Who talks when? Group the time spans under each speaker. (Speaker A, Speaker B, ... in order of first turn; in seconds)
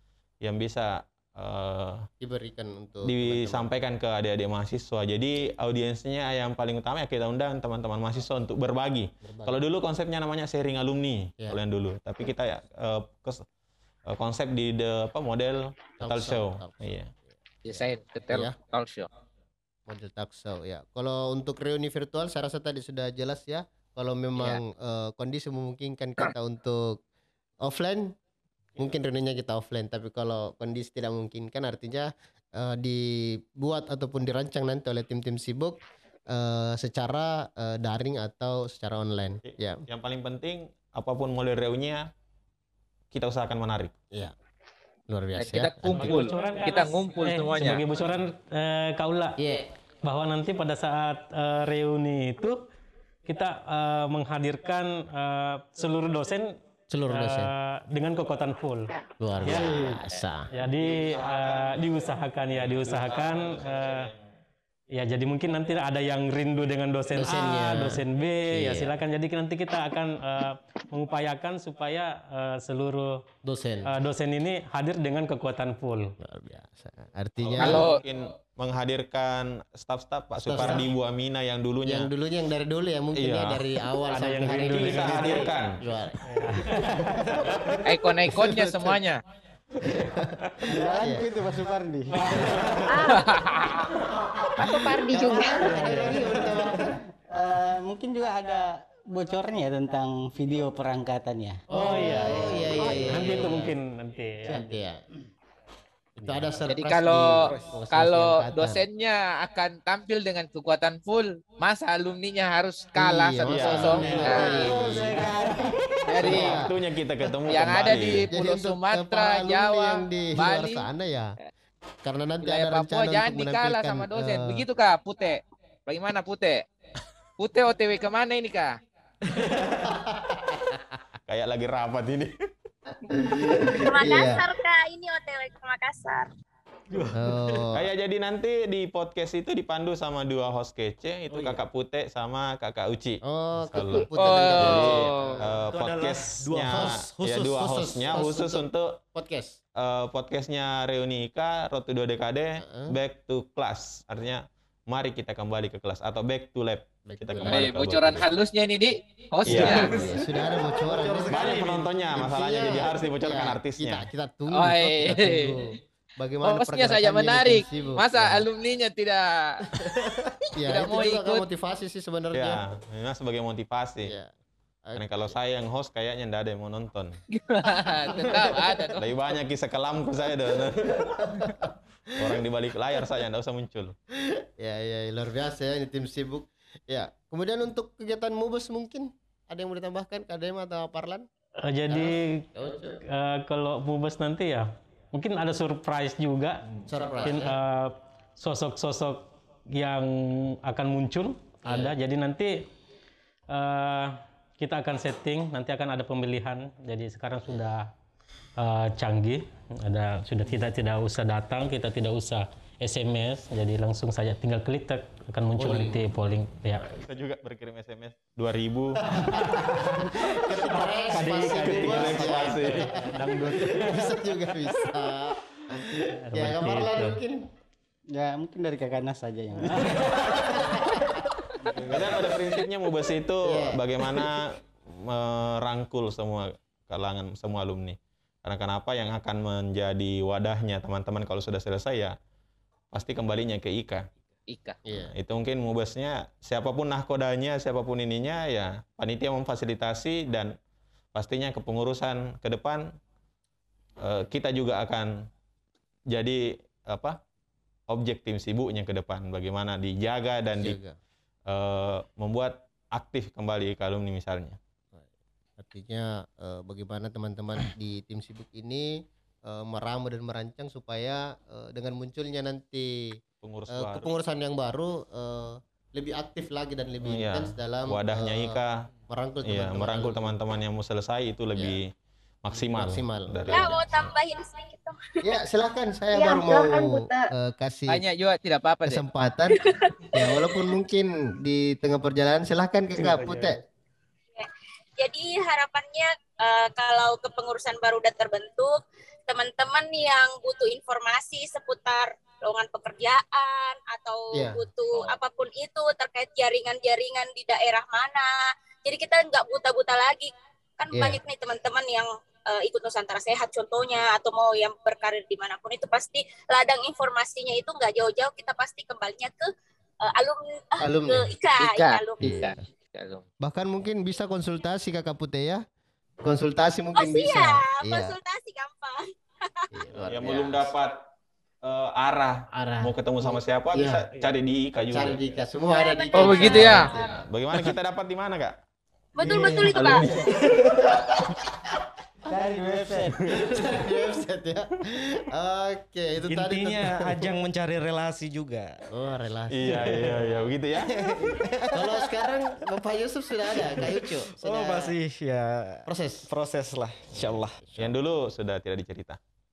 Speaker A: 0.4-2.1, 3.0-13.4, 14.1-17.1, 39.5-42.0, 43.1-44.0, 60.8-64.2, 77.4-82.1, 83.2-83.6, 84.7-85.8, 113.4-114.2, 116.2-118.3, 131.3-132.3, 137.7-149.0, 149.8-158.3, 159.5-159.9, 161.2-164.1, 172.3-174.1, 175.0-177.2, 179.0-181.3, 182.2-184.0, 216.9-219.2, 221.4-223.0, 231.9-242.2, 242.9-244.1, 245.1-250.5, 251.1-253.0, 254.0-255.3, 256.1-257.2, 257.9-260.8, 261.5-264.6, 273.4-274.1, 277.1-278.8, 279.4-281.9, 282.4-284.1, 330.1-331.0, 331.6-335.2, 336.5-338.6, 339.3-340.4, 349.5-350.9, 357.8-359.2
Speaker B: 2.2-3.7, 9.2-9.6, 16.0-16.9, 17.7-18.6, 19.9-27.0, 27.6-28.2, 28.8-35.8, 36.3-39.8, 45.1-46.2, 49.4-49.7, 56.9-57.5, 59.2-60.5, 67.1-69.0, 73.4-73.9, 76.2-77.9, 80.5-80.9, 81.8-86.2, 88.3-89.0, 89.8-91.3, 95.1-97.0, 101.7-103.8, 104.5-105.0, 106.2-108.8, 113.0-115.3, 116.2-116.8, 117.6-121.4, 122.0-124.6, 129.8-131.0, 133.1-134.4, 137.1-137.9, 143.2-145.6, 146.7-149.6, 152.6-152.9, 157.1-158.1, 159.5-168.4, 170.6-172.6, 174.0-174.3, 174.9-175.3, 177.7-178.9, 181.2-181.7, 184.2-191.3, 191.9-193.0, 196.9-197.6, 215.6-216.0, 219.0-227.4, 230.6-231.0, 233.4-234.1, 244.8-245.1, 260.6-261.0, 265.6-273.2, 273.7-280.4, 282.5-284.1, 285.2-288.0, 288.8-289.6, 290.1-293.6, 304.3-304.6, 310.9-311.2, 320.8-321.3, 322.2-322.6, 323.4-325.6, 326.2-328.1, 329.7-330.7, 332.6-332.9, 333.7-334.1, 334.9-337.3, 339.2-341.0, 343.4-347.3, 348.9-350.2, 351.7-354.9, 355.9-356.3, 357.1-357.9
Speaker C: 17.6-19.1, 45.4-47.8, 77.6-78.0, 87.8-89.2, 93.2-93.8, 106.7-114.7, 116.1-116.7, 117.5-120.9, 122.4-126.6, 127.4-128.8, 144.2-145.3, 157.4-160.0, 164.5-165.6, 166.4-169.7, 170.7-171.4, 177.4-179.0, 244.5-244.8, 287.9-289.0, 321.6-323.2, 336.1-336.9
Speaker D: 45.9-49.4, 50.0-52.7, 53.3-56.6, 57.1-60.0, 60.5-64.1, 65.0-73.2, 73.9-76.1, 84.1-85.5, 86.3-87.3, 92.3-92.6, 101.7-104.6, 113.9-114.4, 191.6-196.6, 197.2-202.7, 203.5-207.9, 208.6-216.9, 219.1-224.2, 226.2-227.2, 293.0-293.6
Speaker E: 86.8-87.0, 90.7-93.0, 95.6-96.7, 97.3-103.5, 114.0-116.3, 228.1-230.9, 231.9-232.3, 342.3-343.4
Speaker F: 92.9-93.9, 94.6-95.9, 286.1-287.3
Speaker G: 107.3-107.7, 129.3-129.9, 136.9-137.7, 141.3-141.6, 145.7-147.7, 159.7-161.9, 340.3-340.9, 346.3-348.7, 349.7-350.4, 350.9-351.8, 353.5-357.6
Speaker H: 133.8-136.3, 283.5-285.4, 289.6-290.7, 294.4-298.8, 299.3-308.3, 308.9-319.5, 320.0-322.5, 326.9-329.7, 335.6-337.2, 339.1-340.1